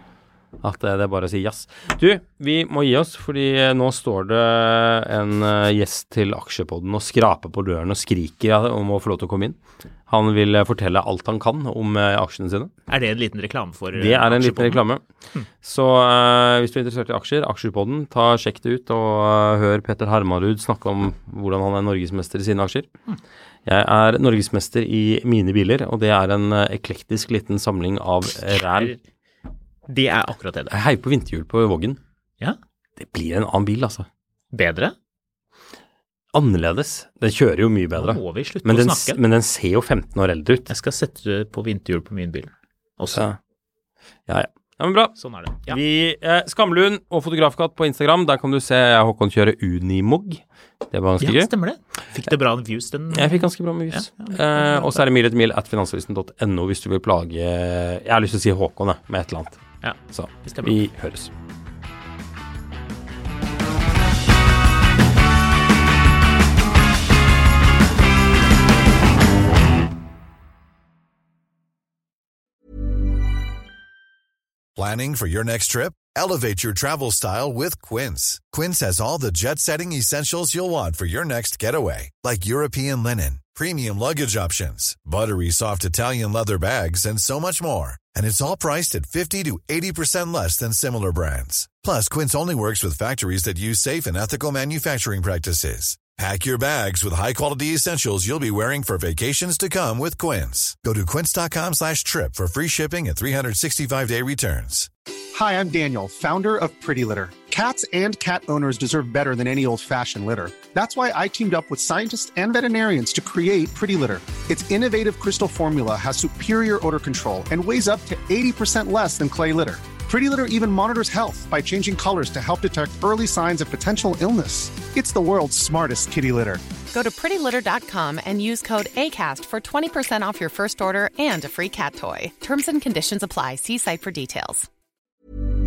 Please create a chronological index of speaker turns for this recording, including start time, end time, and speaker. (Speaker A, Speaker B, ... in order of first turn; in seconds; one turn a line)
Speaker A: 0.6-12.7
Speaker B: 12.9-14.8
Speaker A: 13.9-15.0
Speaker A: 15.6-22.9
Speaker A: 23.6-28.9
Speaker B: 28.5-29.0
Speaker B: 29.9-30.7
Speaker A: 30.7-32.0
Speaker A: 33.0-34.1
Speaker B: 34.5-34.9
Speaker A: 36.3-40.7
Speaker B: 38.0-39.2
Speaker B: 40.7-43.2
Speaker A: 43.1-43.4
Speaker A: 44.3-51.5
Speaker B: 45.1-45.8
Speaker B: 51.2-55.0
Speaker A: 53.1-59.6
Speaker B: 59.8-60.8
Speaker A: 60.1-61.3
Speaker C: 74.7-104.9
Speaker D: 105.3-126.6
Speaker E: 126.9-134.7